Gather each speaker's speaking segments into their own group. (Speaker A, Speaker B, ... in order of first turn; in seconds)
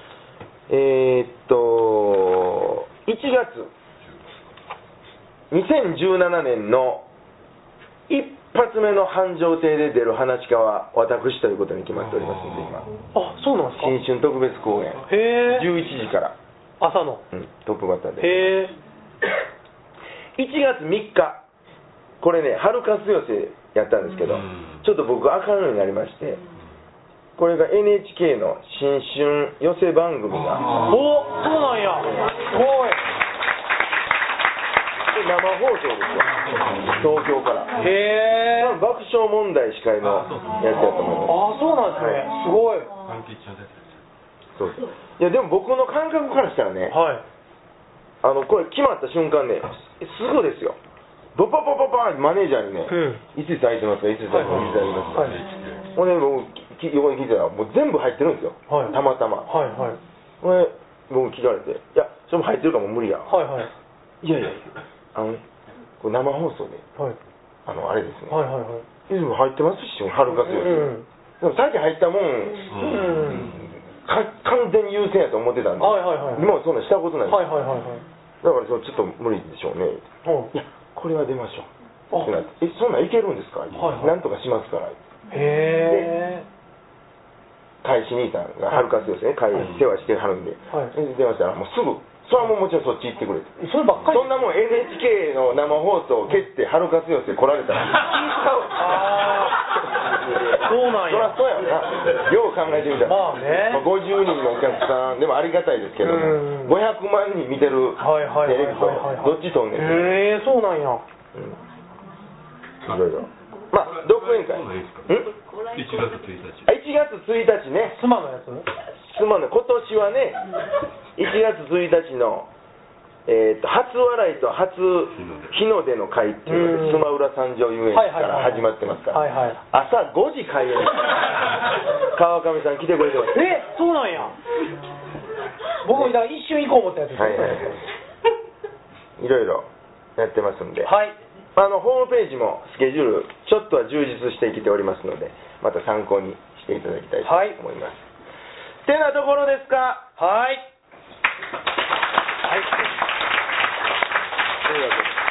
Speaker A: 0.7-3.7, 5.5-7.1, 8.1-12.9, 13.8-16.4, 17.3-18.6, 20.4-21.4, 22.2-26.4, 27.4-30.7, 35.1-37.7, 38.6-41.4, 42.0-42.3, 44.6-47.0, 48.2-50.8, 51.4-55.3, 55.9-59.5, 60.4-63.3, 64.2-65.4, 66.0-66.8, 67.7-68.4, 69.1-77.5, 78.4-81.7, 82.2-85.0, 85.9-86.1, 87.8-99.0, 101.0-110.2, 112.8-115.4, 116.7-118.0, 119.0-120.4, 121.2-122.5, 123.3-131.2, 132.1-133.6, 135.9-136.2, 137.2-137.8, 139.2-140.9, 141.6-148.1, 148.8-150.1, 154.7-155.1
Speaker B: 12.2-12.7, 40.2-41.0, 43.0-43.8, 54.5-55.9, 72.7-73.2, 114.0-115.1, 115.7-116.7
Speaker C: 13.1-13.9, 15.1-15.7, 16.8-17.2, 18.2-18.7, 30.8-33.0, 37.8-38.8, 41.2-42.9, 46.9-47.2, 52.9-53.2, 54.3-55.4, 58.7-59.0, 59.5-60.0, 63.3-63.7, 68.3-68.8, 70.3-71.1, 72.8-73.5, 75.8-76.5, 77.3-78.0, 80.2-80.5, 83.7-84.2, 85.3-86.5, 93.6-94.4, 98.7-99.6, 100.6-101.4, 103.0-103.8, 106.0-106.8, 108.0-111.0, 117.9-118.7, 126.5-127.1, 127.9-129.6, 133.3-134.4, 135.8-137.8, 140.8-141.2, 147.2-147.6, 150.2-150.7